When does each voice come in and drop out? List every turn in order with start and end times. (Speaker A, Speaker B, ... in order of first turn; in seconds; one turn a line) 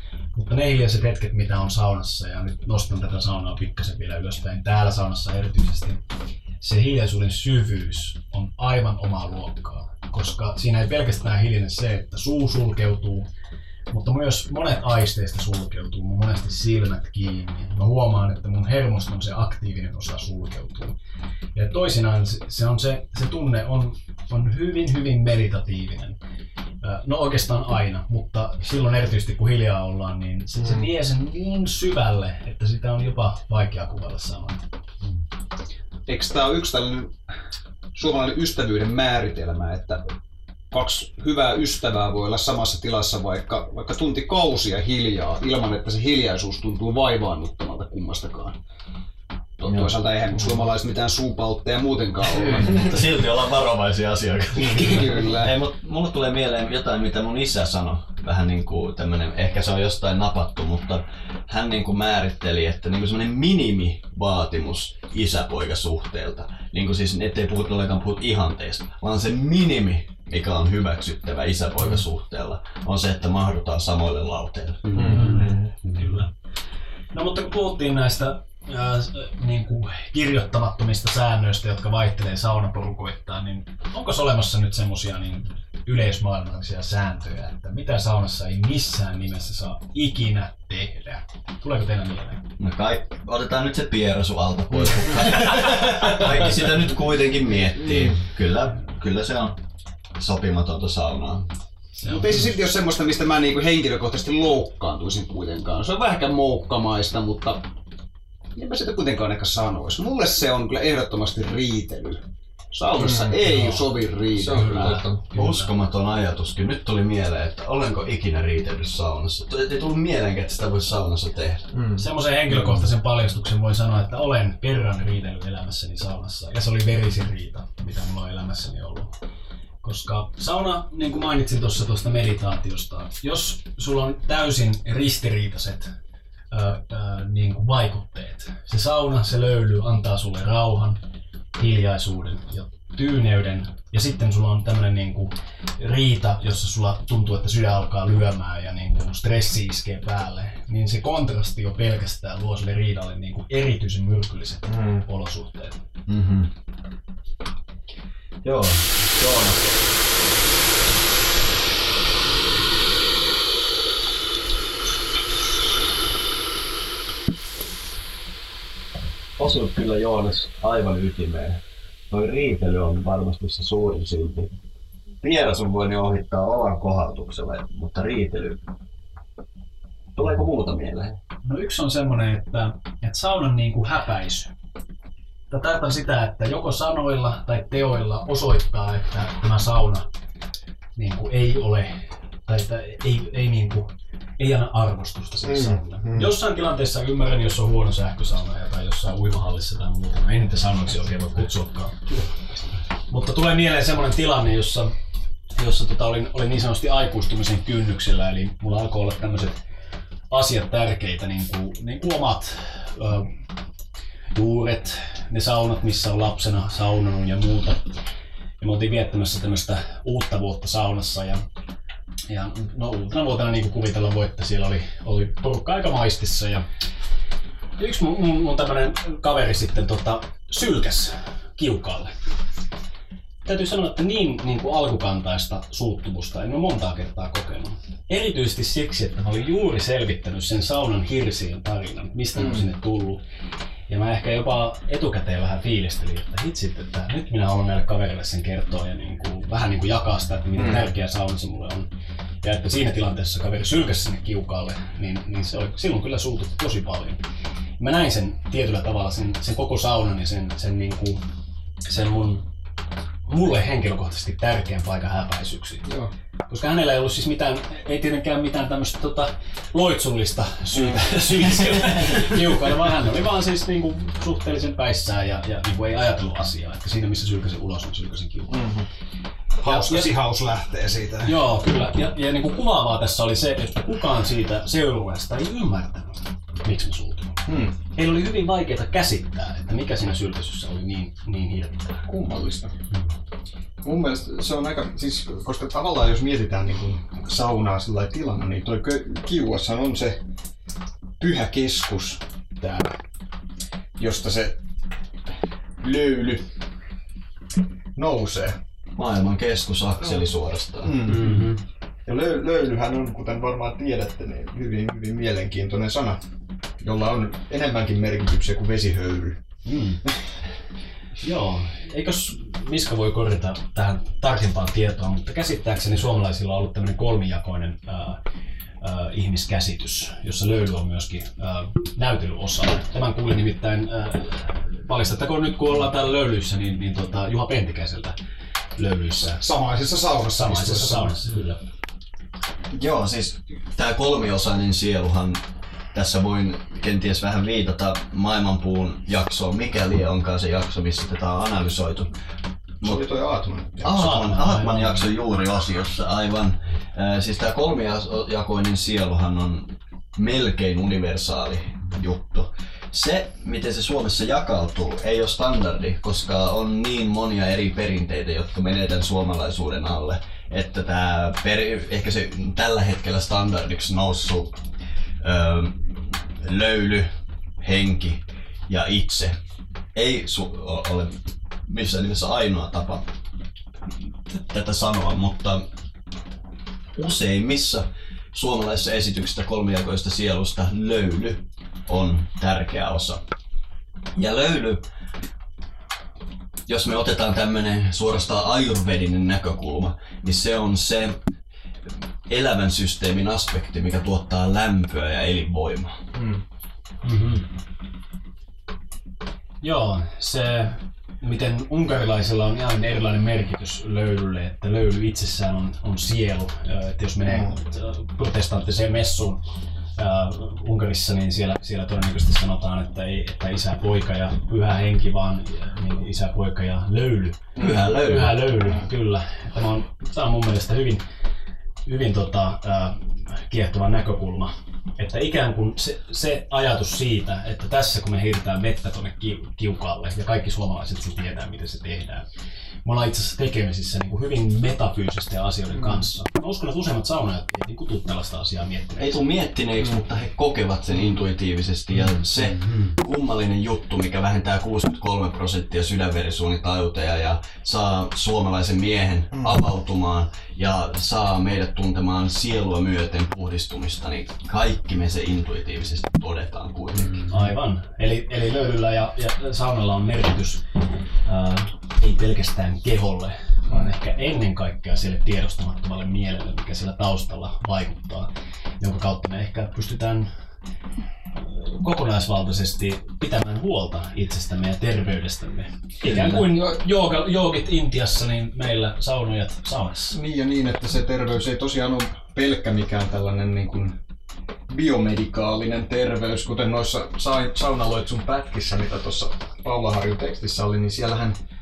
Speaker A: 0.3-6.0
Speaker A: 6.6-13.3
Speaker A: 13.9-21.0
Speaker A: 21.6-26.2
Speaker A: 26.8-34.7
Speaker B: 36.1-37.2
Speaker B: 38.0-40.0
Speaker B: 40.7-48.6
Speaker B: 49.6-52.9
Speaker C: 49.6-49.9
Speaker C: 52.6-75.2
Speaker B: 54.5-55.5
Speaker A: 74.9-76.3
Speaker D: 75.0-75.7
Speaker A: 77.1-92.5
Speaker C: 92.6-99.6
Speaker C: 100.2-101.5
Speaker B: 102.0-107.7
Speaker B: 108.5-115.1
Speaker D: 113.0-113.4
Speaker A: 113.5-113.9
Speaker D: 114.4-115.2
Speaker A: 114.5-115.7
Speaker C: 115.3-121.7
Speaker D: 121.7-122.0
Speaker A: 122.0-129.2
Speaker A: 129.8-135.9
Speaker A: 136.5-141.0
Speaker A: 141.6-155.8
Speaker D: 154.7-155.1
Speaker C: 156.1-156.5
Speaker C: 158.4-159.6
Speaker C: 169.4-174.5
Speaker C: 175.2-178.6
Speaker C: 180.2-181.2
Speaker A: 181.4-184.5
Speaker A: 185.5-190.1
Speaker A: 190.9-202.2
Speaker D: 195.6-196.3
Speaker A: 203.1-204.9
Speaker A: 205.6-209.6
Speaker A: 210.3-213.3
Speaker A: 214.3-217.9
Speaker A: 218.6-221.4
Speaker A: 222.3-226.7
Speaker A: 227.8-232.1
Speaker A: 233.4-243.2
Speaker D: 242.4-242.7
Speaker A: 243.9-251.9
Speaker D: 250.6-250.9
Speaker A: 252.4-257.2
Speaker A: 257.8-261.2
Speaker A: 261.9-262.5
Speaker A: 263.3-265.9
Speaker D: 265.9-266.1
Speaker A: 266.4-278.7
Speaker D: 270.8-271.1
Speaker D: 278.5-278.9
Speaker B: 279.6-281.4
Speaker A: 279.6-280.1
Speaker A: 281.2-292.1
Speaker D: 287.4-287.8
Speaker D: 292.1-292.8
Speaker D: 293.8-300.2
Speaker D: 301.2-303.0
Speaker D: 304.0-304.6
Speaker D: 305.8-306.5
Speaker D: 307.9-308.6
Speaker C: 308.9-311.2
Speaker D: 310.8-311.5
Speaker A: 311.1-311.6
Speaker D: 312.1-316.2
Speaker D: 316.8-319.4
Speaker A: 319.6-320.0
Speaker A: 321.2-328.2
Speaker A: 328.8-338.2
Speaker A: 338.8-339.4
Speaker B: 339.4-341.2
Speaker A: 340.4-341.6
Speaker C: 342.7-352.1
Speaker D: 352.8-354.0
Speaker C: 353.8-374.6
Speaker A: 353.9-355.1
Speaker C: 375.2-379.4
Speaker C: 379.9-383.1
Speaker C: 384.3-385.6
Speaker C: 386.9-393.2
Speaker C: 394.1-394.9
Speaker C: 396.7-401.2
Speaker C: 402.3-406.0
Speaker D: 406.1-406.4
Speaker A: 407.0-407.5
Speaker A: 409.6-419.4
Speaker D: 417.3-417.5
Speaker A: 419.9-431.1
Speaker C: 427.6-428.4
Speaker A: 431.9-442.3
Speaker A: 442.9-449.2
Speaker C: 449.0-467.2
Speaker D: 459.4-459.6
Speaker A: 467.3-470.6
Speaker A: 471.2-480.3
Speaker A: 481.4-490.2
Speaker D: 486.1-486.4
Speaker D: 490.1-494.0
Speaker D: 494.7-501.4